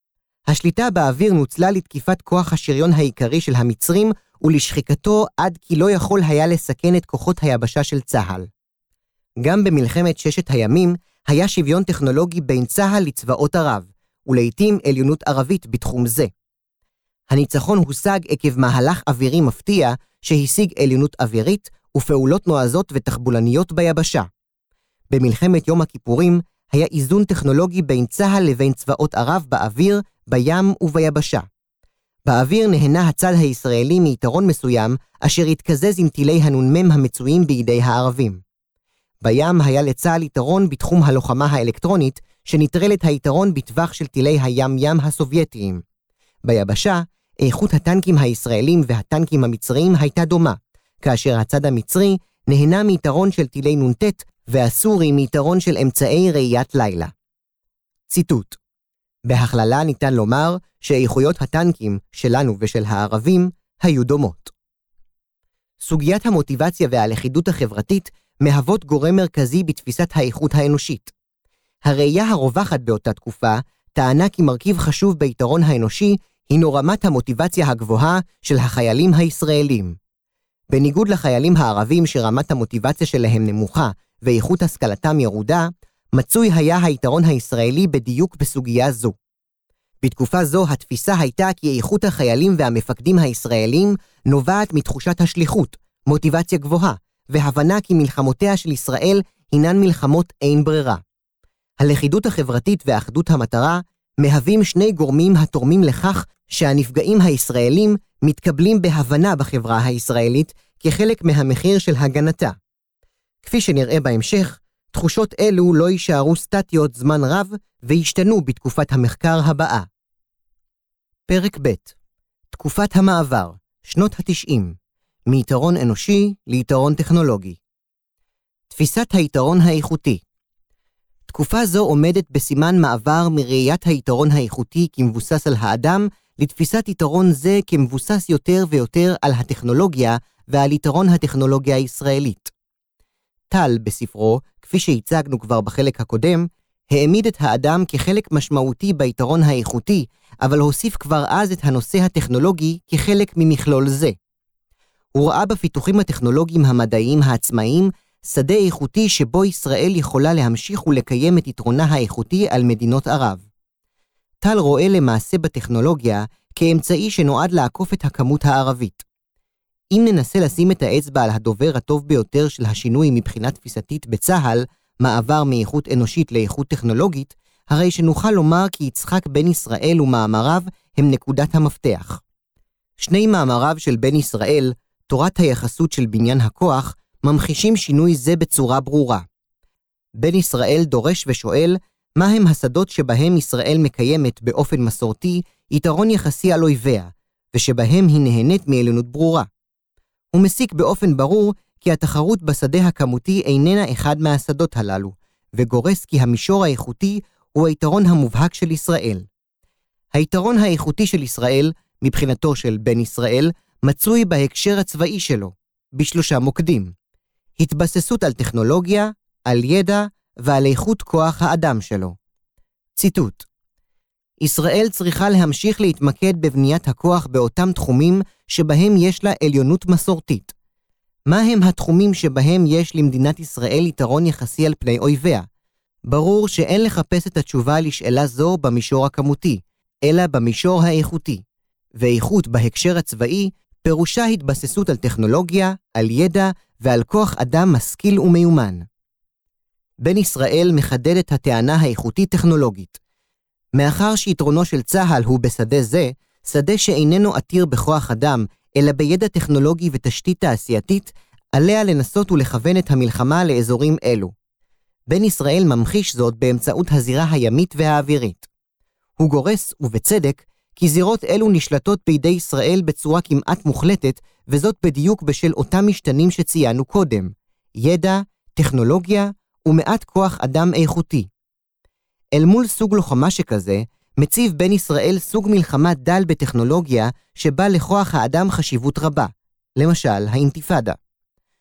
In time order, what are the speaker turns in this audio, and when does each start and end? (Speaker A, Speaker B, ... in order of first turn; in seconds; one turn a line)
Speaker A: 0.5-8.5
Speaker A: 9.4-16.3
Speaker A: 17.3-24.3
Speaker A: 25.1-31.5
Speaker A: 32.2-38.4
Speaker A: 39.2-45.8
Speaker A: 46.4-57.1
Speaker A: 58.1-58.6
Speaker A: 59.2-64.5
Speaker A: 65.8-71.1
Speaker A: 71.8-80.0
Speaker A: 80.7-89.2
Speaker A: 90.0-101.0
Speaker A: 101.8-112.5
Speaker A: 113.4-119.9
Speaker A: 121.3-121.9
Speaker A: 122.5-124.8
Speaker A: 125.3-127.6
Speaker A: 128.7-130.2
Speaker A: 131.3-142.5
Speaker A: 143.5-154.2
Speaker A: 155.1-163.4
Speaker A: 164.4-169.0
Speaker A: 169.9-182.2
Speaker A: 183.0-189.2
Speaker A: 190.2-199.5
Speaker A: 200.3-209.2
Speaker A: 210.1-216.9
Speaker A: 217.6-222.2
Speaker A: 222.9-223.5
Speaker A: 224.4-230.5
Speaker A: 231.3-235.5
Speaker A: 236.0-241.4
Speaker A: 241.9-248.8
Speaker A: 250.0-253.0
Speaker A: 253.7-264.3
Speaker A: 265.1-268.5
Speaker A: 269.2-281.3
Speaker A: 282.3-291.0